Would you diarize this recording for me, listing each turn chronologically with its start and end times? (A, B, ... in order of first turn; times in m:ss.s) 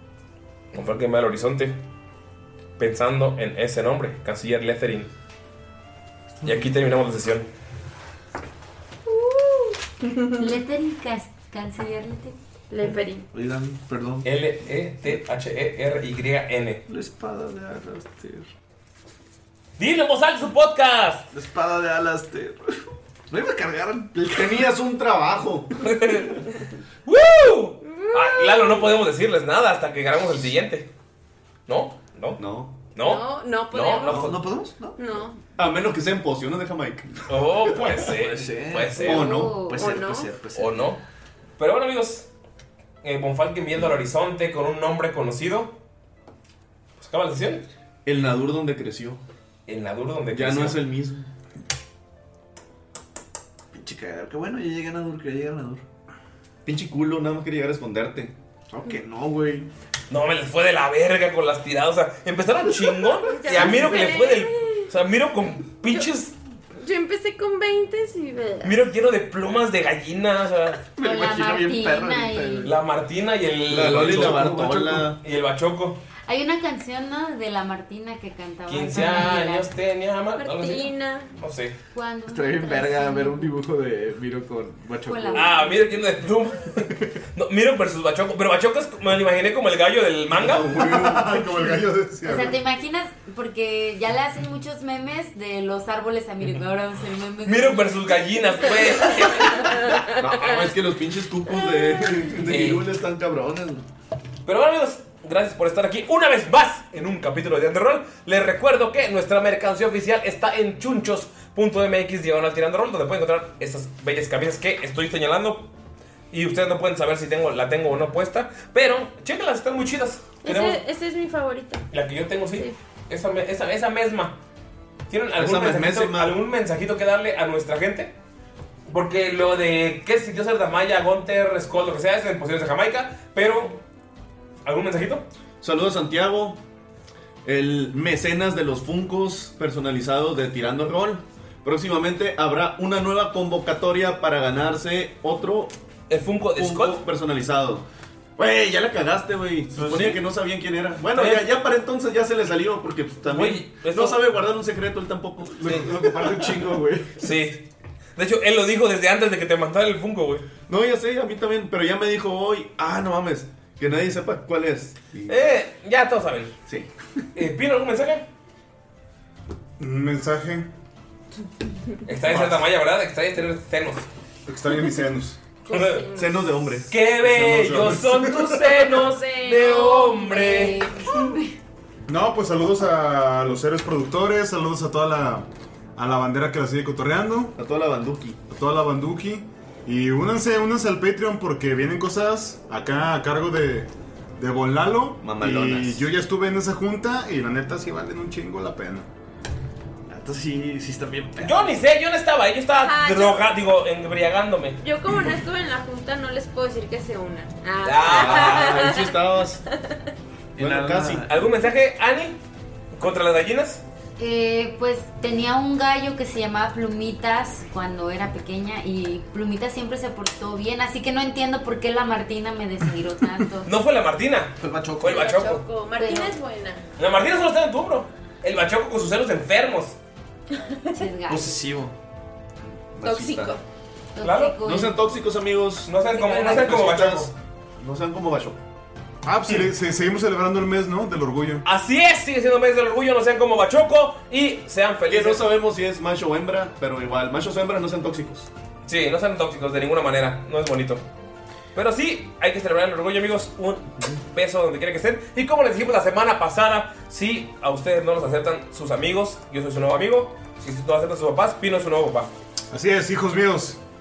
0:00.7-0:01.8 A
0:02.8-0:05.1 A
0:06.4-0:07.5 A
0:09.2-0:09.4 B
0:09.2-0:10.3 C
0:10.4-0:12.4 B
0:12.7-0:13.3 C
0:13.3-0:14.3 D
0:14.2-0:16.8 A
0:16.9-0:18.5 D
0:19.8-0:21.3 A
0:21.3-0:22.8 D
0:23.3-0:24.7 D
0:24.2-0:25.7 E
0:25.8-0:26.5 A
0:27.1-0:30.9 A
0:27.8-0:28.9 C
0:31.7-0:32.4 A
0:32.4-0:32.8 E
0:33.0-0:34.4 A
0:33.0-0:34.4 C
0:34.0-0:35.0 D
0:35.0-0:35.4 C
0:35.6-0:37.3 E
0:37.3-0:39.4 A
0:38.0-0:41.0 D
0:39.0-0:39.6 E
0:39.0-0:39.8 B
0:39.7-0:40.4 C
0:40.5-0:41.0 A
0:41.6-0:42.3 A
0:43.0-0:45.8 A
0:47.0-0:47.7 A
0:48.0-0:49.2 E
0:49.7-0:50.8 A
0:50.3-0:51.3 E
0:53.7-0:55.8 D
0:56.6-0:58.3 E
0:58.7-0:59.7 D
1:00.1-1:06.4 A
1:03.2-1:04.9 C
1:06.8-1:08.8 C
1:08.6-1:10.8 A
1:11.0-1:12.7 D
1:11.0-1:12.7 B
1:12.6-1:16.0 A
1:13.7-1:15.2 E
1:16.3-1:19.7 B
1:18.7-1:21.8 A
1:20.4-1:21.3 C
1:21.9-1:23.5 B
1:22.3-1:25.5 D
1:25.0-1:25.8 B
1:25.3-1:30.8 A
1:30.4-1:31.5 E
1:30.6-1:32.6 F
1:32.2-1:38.2 B
1:37.4-1:40.8 A
1:39.6-1:40.0 C
1:40.2-1:43.8 E
1:42.4-1:42.9 A
1:44.4-1:55.7 A
1:56.3-2:00.8 A
2:00.4-2:01.9 C
2:01.9-2:04.4 A
2:05.1-2:08.1 A
2:05.4-2:06.4 E
2:08.9-2:13.8 A
2:14.6-2:15.2 A
2:15.6-2:16.6 E
2:17.4-2:25.7 E
2:26.1-2:27.0 A
2:26.5-2:27.8 E
2:28.4-2:36.8 E
2:29.7-2:30.3 A
2:31.1-2:31.5 A
2:33.3-2:34.3 A
2:35.6-2:37.2 D
2:37.2-2:40.4 A
2:40.7-2:45.4 E
2:45.3-2:46.5 A
2:47.4-2:48.3 A
2:49.8-2:50.7 F
2:52.1-2:54.1 A
2:52.3-2:52.6 F
2:54.4-2:55.4 F
2:55.7-2:56.4 C
2:55.7-2:56.1 A
2:56.1-2:56.9 E
2:56.9-3:00.8 A
2:57.2-2:58.8 F
2:59.0-3:00.7 C
3:00.1-3:01.5 B
3:02.1-3:07.6 F
3:07.6-3:08.4 E
3:08.5-3:19.1 F
3:15.2-3:16.1 E
3:20.1-3:21.8 D
3:21.4-3:24.8 A
3:22.8-3:23.5 C
3:24.8-3:29.2 C
3:27.8-3:29.0 A
3:28.0-3:29.6 E
3:30.6-3:31.3 D
3:30.6-3:31.3 E
3:31.2-3:32.4 A
3:33.0-3:33.8 A
3:34.2-3:43.7 B
3:43.6-3:45.6 A
3:44.6-3:45.2 D
3:45.0-3:46.8 C
3:46.0-3:46.3 B
3:47.0-3:50.0 A
3:50.6-3:51.0 C
3:50.9-3:51.6 B
3:51.3-3:51.9 D
3:53.0-3:53.5 E
3:53.0-3:53.6 C
3:54.2-3:55.0 B
3:54.2-3:54.6 A
3:54.6-3:58.6 E
3:55.9-3:57.3 A
3:59.3-4:01.6 F
4:01.6-4:05.4 A
4:05.1-4:08.5 E
4:08.9-4:11.0 A
4:11.7-4:22.3 A
4:22.7-4:23.8 F